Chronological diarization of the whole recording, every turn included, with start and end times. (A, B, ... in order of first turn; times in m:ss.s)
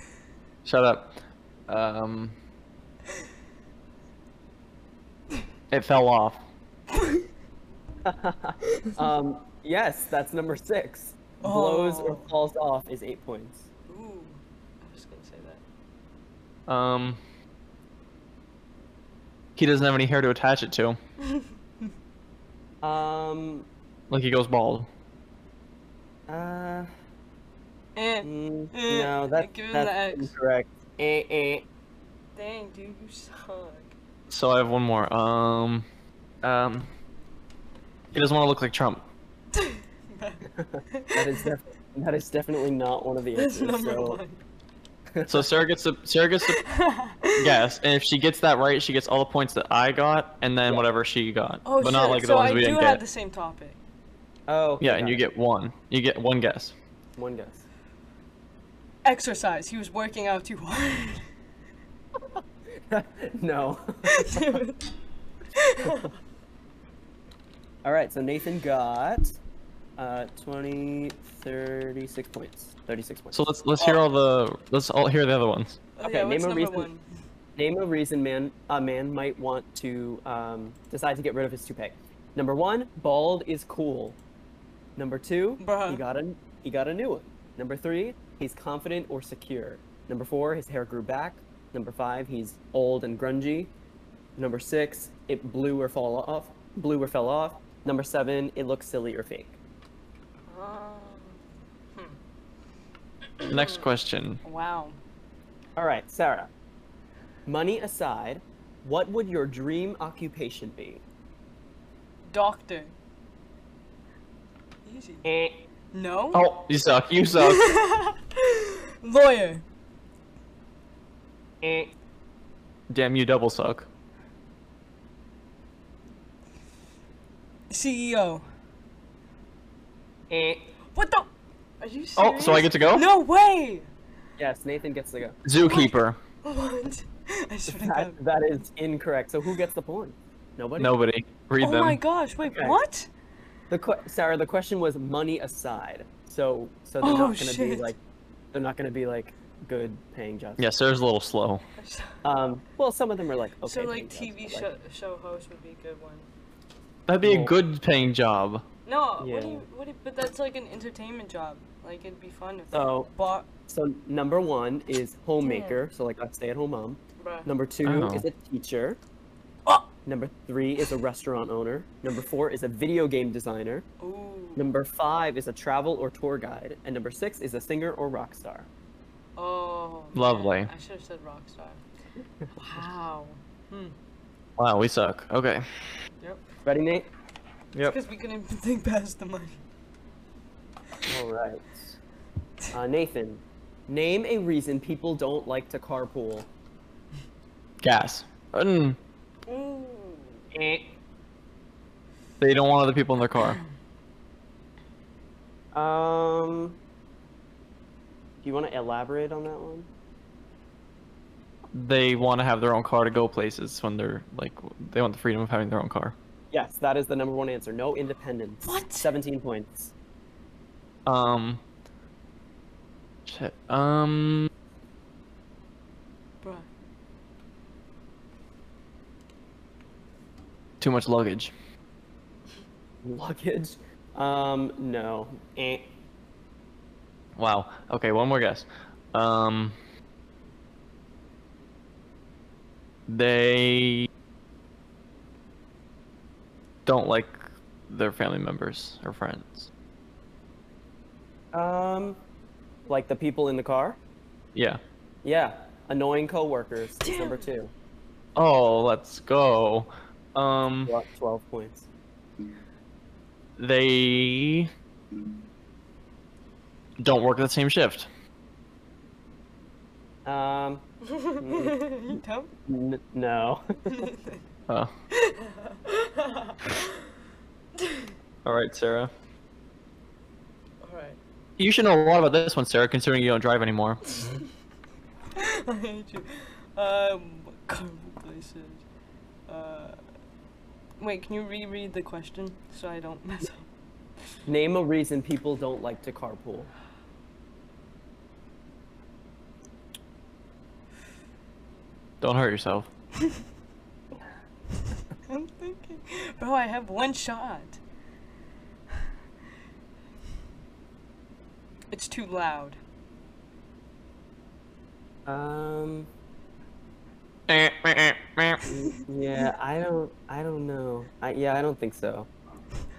0:00.6-0:02.4 A
0:05.7-0:06.4 A
0:08.0-0:13.7 B
0:11.4-0:12.3 C
0:13.9-0:15.6 C
0:16.7-0:17.2 A
0:19.6-0:21.0 A
0:21.2-0:21.5 C
0:22.8-0:23.7 B
0:24.1-0:24.9 A
0:26.3-0:26.9 B
0:28.0-0:30.3 C
0:28.2-0:31.7 B
0:32.4-0:33.9 C
0:34.3-0:35.8 A
0:36.4-0:36.9 A
0:38.1-0:39.0 A
0:39.5-0:41.5 C
0:40.6-0:44.2 B
0:43.4-0:44.4 C
0:45.1-0:45.6 B
0:45.3-0:46.6 A
0:46.5-0:47.6 C
0:47.4-0:53.0 A
0:51.6-0:53.8 C
0:54.5-0:55.2 B
0:54.8-0:56.7 A
0:57.2-0:57.6 B
0:59.0-1:01.3 C
1:02.3-1:04.6 B
1:04.0-1:04.9 C
1:05.5-1:06.2 C
1:07.8-1:09.3 B
1:10.0-1:14.0 B
1:13.3-1:15.8 A
1:16.0-1:17.0 C
1:16.0-1:16.9 B
1:17.6-1:24.2 B
1:25.0-1:33.7 B
1:25.6-1:26.0 C
1:34.4-1:39.6 B
1:40.5-1:41.4 C
1:43.4-1:43.8 C
1:43.4-1:44.4 A
1:44.4-1:45.0 C
1:45.8-1:46.5 B
1:47.5-1:51.0 B
1:52.3-1:52.9 C
1:54.8-1:55.3 C
1:55.2-1:55.6 B
1:55.9-1:56.5 C
1:56.3-1:57.8 A
1:57.4-1:59.6 C
2:01.6-2:01.9 B
2:02.9-2:03.9 A
2:07.7-2:08.4 C
2:10.3-2:10.7 B
2:11.0-2:11.3 C
2:11.8-2:13.9 C
2:12.2-2:13.0 A
2:14.4-2:15.4 B
2:15.4-2:16.2 A
2:15.6-2:18.2 C
2:17.7-2:21.0 B
2:20.8-2:22.0 A
2:21.6-2:23.1 C
2:22.5-2:22.8 B
2:23.7-2:28.0 B
2:27.0-2:27.9 C
2:28.5-2:30.6 B
2:30.6-2:31.6 A
2:31.8-2:32.2 C
2:32.2-2:34.7 B
2:33.6-2:36.3 C
2:37.1-2:38.6 A
2:37.2-2:37.6 B
2:38.8-2:43.5 C
2:39.2-2:39.6 B
2:42.7-2:43.1 B
2:43.7-2:49.0 B
2:45.4-2:45.8 C
2:47.2-2:47.5 C
2:47.8-2:48.3 A
2:50.1-2:53.9 B
2:54.0-2:54.7 C
2:54.6-2:58.7 B
2:59.4-3:01.8 C
3:00.2-3:00.7 A
3:02.5-3:04.0 C
3:04.6-3:05.6 A
3:06.6-3:07.1 B
3:07.8-3:09.6 C
3:11.1-3:11.9 B
3:12.7-3:16.5 B
3:17.8-3:19.0 A
3:19.5-3:20.5 C
3:20.5-3:21.0 B
3:22.4-3:23.6 A
3:25.7-3:26.8 B
3:28.4-3:29.9 B
3:31.7-3:36.2 A
3:36.5-3:39.9 B
3:38.6-3:39.1 C
3:41.1-3:41.6 A
3:43.3-3:44.5 A
3:46.4-3:46.7 C
3:50.8-3:51.5 A
3:53.0-3:55.9 B
3:57.4-3:59.8 A
4:03.1-4:04.1 A
4:06.9-4:09.7 A
4:11.5-4:12.2 B
4:12.9-4:14.0 B
4:14.6-4:14.8 A
4:15.2-4:17.7 B
4:17.0-4:17.5 C
4:18.4-4:20.9 A
4:20.9-4:21.9 B
4:23.6-4:24.7 A
4:27.0-4:28.1 A
4:30.2-4:30.8 B
4:31.0-4:32.5 C
4:31.4-4:34.0 B
4:33.9-4:34.4 C
4:35.1-4:37.0 C
4:37.8-4:38.1 C
4:38.4-4:39.1 A
4:40.8-4:41.2 C
4:41.6-4:44.2 A
4:45.4-4:48.8 C
4:49.5-4:50.0 C
4:51.0-4:53.7 C
4:54.5-4:56.7 B
5:02.2-5:02.9 A
5:05.3-5:07.8 C
5:11.9-5:12.8 C
5:15.3-5:16.1 B
5:17.5-5:18.7 A
5:18.7-5:22.3 B